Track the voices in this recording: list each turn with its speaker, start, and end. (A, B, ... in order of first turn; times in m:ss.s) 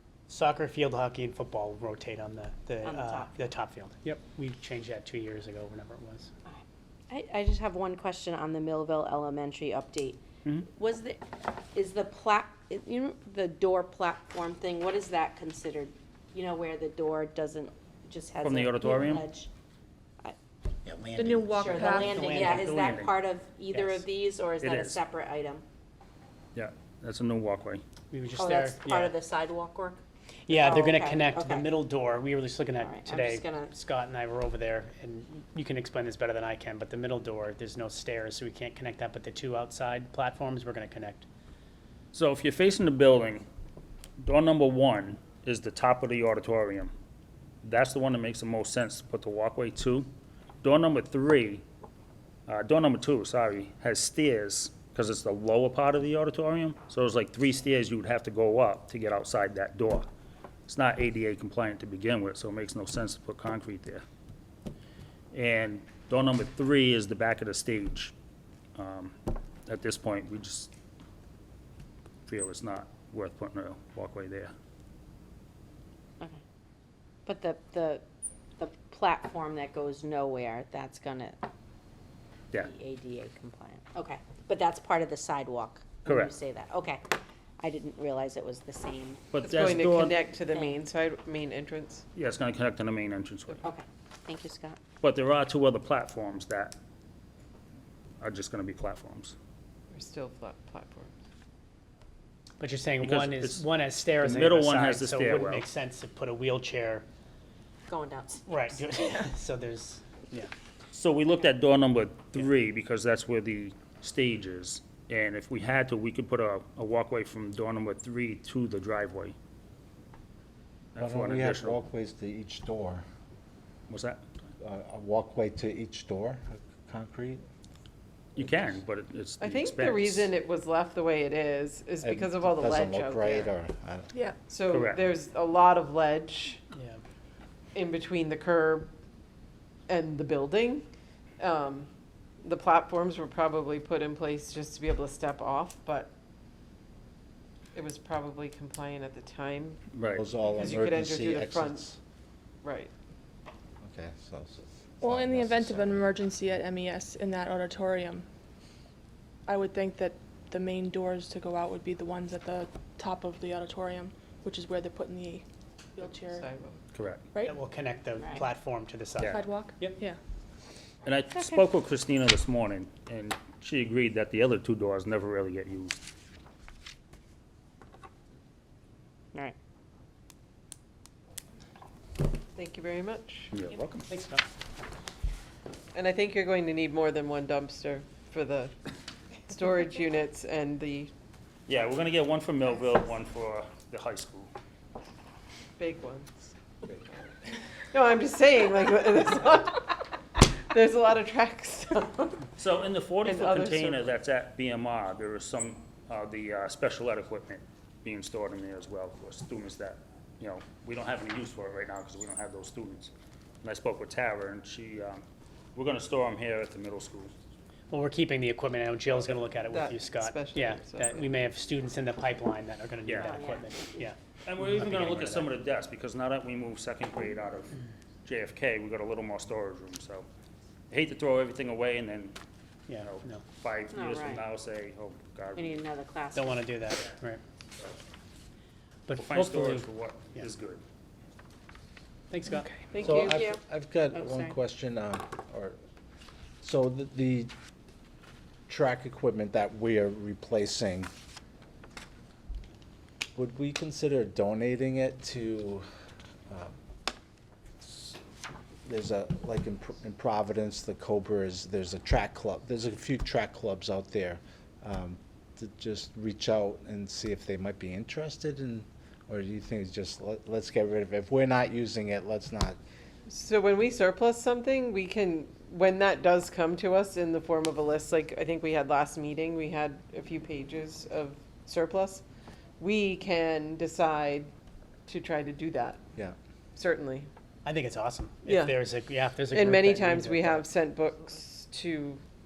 0:00.3-0:06.3 A
0:02.8-0:03.3 B
0:06.4-0:19.5 B
0:18.4-0:19.2 C
0:20.9-0:21.6 D
0:21.2-0:22.4 E
0:21.5-0:25.6 B
0:22.0-0:22.7 A
0:22.4-0:23.2 C
0:23.7-0:24.0 A
0:24.6-0:25.0 C
0:26.5-0:27.8 C
0:28.1-0:29.1 A
0:28.3-0:31.7 B
0:30.5-0:41.3 A
0:32.7-0:33.7 B
0:42.1-0:43.4 C
0:44.2-0:46.9 C
0:47.6-0:50.1 C
0:50.6-0:51.6 C
0:52.5-1:00.1 C
1:00.7-1:04.0 C
1:05.3-1:08.1 C
1:08.7-1:09.1 C
1:09.6-1:10.7 C
1:12.2-1:14.5 C
1:17.2-1:18.0 B
1:18.6-1:21.4 B
1:22.6-1:27.0 B
1:26.0-1:26.3 C
1:27.6-1:29.2 B
1:29.3-1:30.2 C
1:29.4-1:32.0 F
1:30.5-1:30.8 B
1:32.1-1:33.7 C
1:33.6-1:34.8 B
1:35.0-1:36.8 C
1:38.2-1:39.3 C
1:39.9-1:41.1 F
1:42.6-1:47.0 A
1:43.0-1:45.7 C
1:47.9-1:48.5 B
1:48.5-1:50.5 A
1:50.9-1:59.3 C
2:00.9-2:01.8 C
2:01.0-2:03.0 D
2:03.9-2:04.2 C
2:04.6-2:07.4 D
2:08.4-2:10.3 C
2:08.4-2:08.8 D
2:09.4-2:13.5 F
2:12.0-2:14.1 D
2:14.4-2:16.6 F
2:14.7-2:15.0 C
2:16.7-2:17.0 A
2:17.7-2:18.9 F
2:19.9-2:20.8 F
2:21.4-2:21.9 F
2:22.4-2:26.1 F
2:27.7-2:29.8 F
2:29.9-2:30.3 C
2:30.1-2:32.0 D
2:30.5-2:31.9 F
2:32.6-2:32.9 F
2:33.8-2:36.2 D
2:35.0-2:38.2 E
2:39.5-2:45.4 E
2:46.0-2:46.4 E
2:46.0-2:46.8 F
2:46.9-2:47.2 C
2:47.4-2:50.0 A
2:49.2-2:50.2 E
2:51.0-2:55.9 C
3:02.5-3:03.5 F
3:03.5-3:04.1 C
3:04.1-3:04.4 A
3:05.9-3:08.7 F
3:09.4-3:11.1 F
3:11.7-3:14.5 C
3:15.8-3:16.5 F
3:17.9-3:22.5 F
3:22.6-3:35.2 C
3:23.2-3:24.1 F
3:35.7-3:37.3 C
3:37.9-3:45.5 A
3:39.1-3:39.4 C
3:39.5-3:41.4 F
3:43.0-3:43.4 C
3:43.2-3:43.7 B
3:44.4-3:50.2 C
3:50.9-3:52.4 C
3:52.9-3:53.4 A
3:52.9-3:55.8 C
3:53.9-3:54.4 B
3:55.5-3:56.6 B
3:56.3-3:57.4 A
3:59.1-4:00.5 A
3:59.2-4:00.8 C
4:02.3-4:02.8 A
4:02.5-4:02.8 E
4:02.9-4:03.4 F
4:03.0-4:05.8 D
4:03.1-4:03.6 B
4:04.1-4:04.6 B
4:06.6-4:07.5 D
4:08.7-4:11.1 D
4:13.4-4:15.8 D
4:17.8-4:18.2 D
4:18.8-4:32.8 D
4:33.2-4:42.2 F
4:42.8-4:44.5 F
4:45.1-4:46.0 F
4:46.8-4:47.3 F
4:47.6-4:50.7 A
4:48.4-4:48.8 F
4:49.5-4:52.2 F